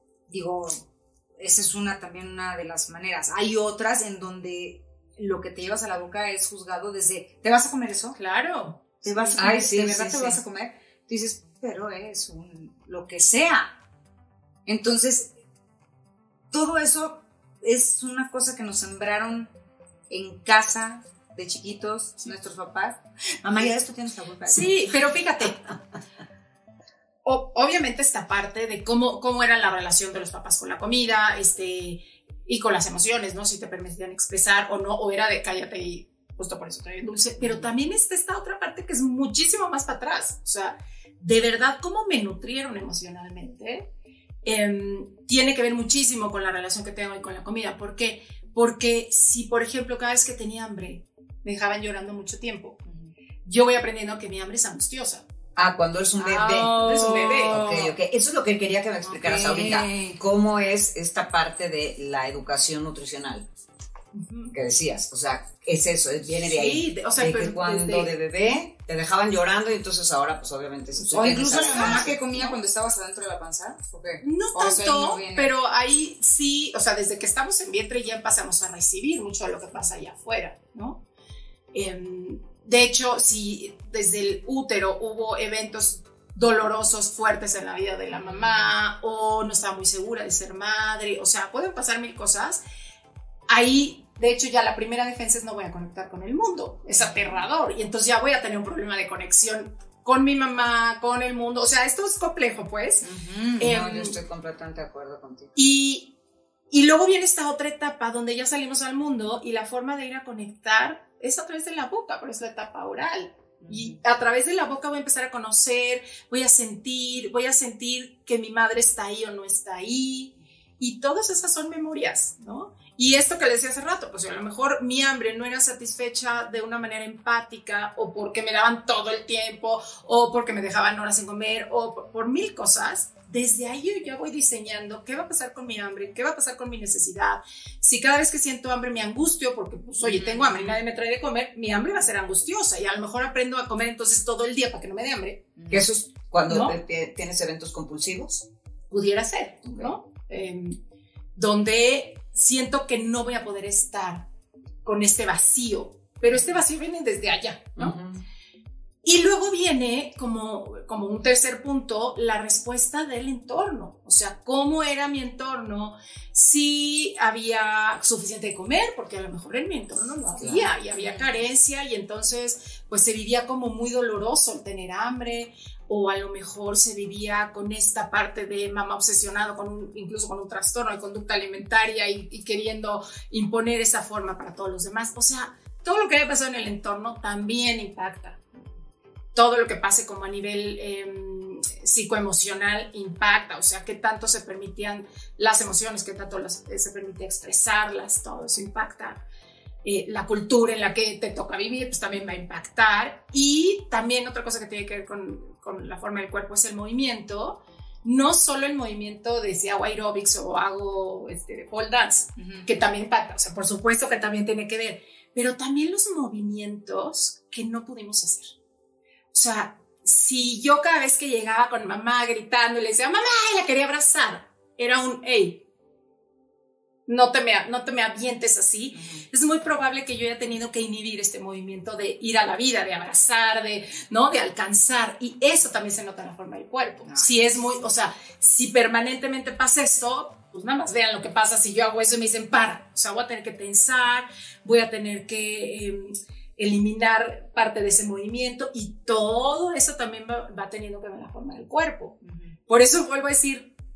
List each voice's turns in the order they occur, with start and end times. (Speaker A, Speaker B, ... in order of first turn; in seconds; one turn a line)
Speaker A: 0.3-8.2
Speaker B: 8.1-9.6
Speaker A: 9.0-13.8
Speaker C: 9.4-10.4
Speaker A: 14.6-15.3
Speaker A: 16.5-19.5
Speaker A: 20.1-24.8
Speaker B: 24.5-25.7
Speaker B: 27.2-43.9
Speaker A: 37.4-37.7
Speaker B: 44.4-52.8
Speaker A: 52.9-53.1
Speaker B: 53.4-55.2
Speaker C: 55.5-63.5
Speaker B: 56.2-57.9
Speaker A: 59.2-60.2
Speaker B: 59.3-59.7
Speaker B: 64.1-64.5
Speaker C: 64.5-72.1
Speaker B: 66.5-68.1
Speaker B: 71.1-72.6
Speaker A: 71.1-75.5
Speaker B: 74.2-81.0
Speaker B: 81.7-92.6
Speaker A: 88.1-88.7
Speaker B: 93.5-103.1
Speaker A: 97.0-97.5
Speaker A: 103.0-103.8
Speaker C: 103.6-105.5
Speaker B: 103.6-104.2
Speaker B: 105.5-106.1
Speaker B: 106.7-145.5
Speaker A: 113.6-114.0
Speaker A: 140.0-140.8
Speaker A: 145.6-145.8
Speaker C: 145.7-148.4
Speaker B: 146.5-146.7
Speaker B: 148.9-150.8
Speaker C: 149.6-149.9
Speaker B: 151.3-154.3
Speaker B: 154.8-158.0
Speaker C: 157.8-158.2
Speaker B: 159.0-188.4
Speaker C: 170.4-170.7
Speaker A: 170.9-171.5
Speaker B: 189.3-199.2
Speaker B: 199.8-218.5
Speaker A: 212.4-212.7
Speaker B: 219.3-225.6
Speaker B: 227.1-253.7
Speaker A: 228.9-229.2
Speaker A: 237.1-237.3
Speaker A: 252.2-252.6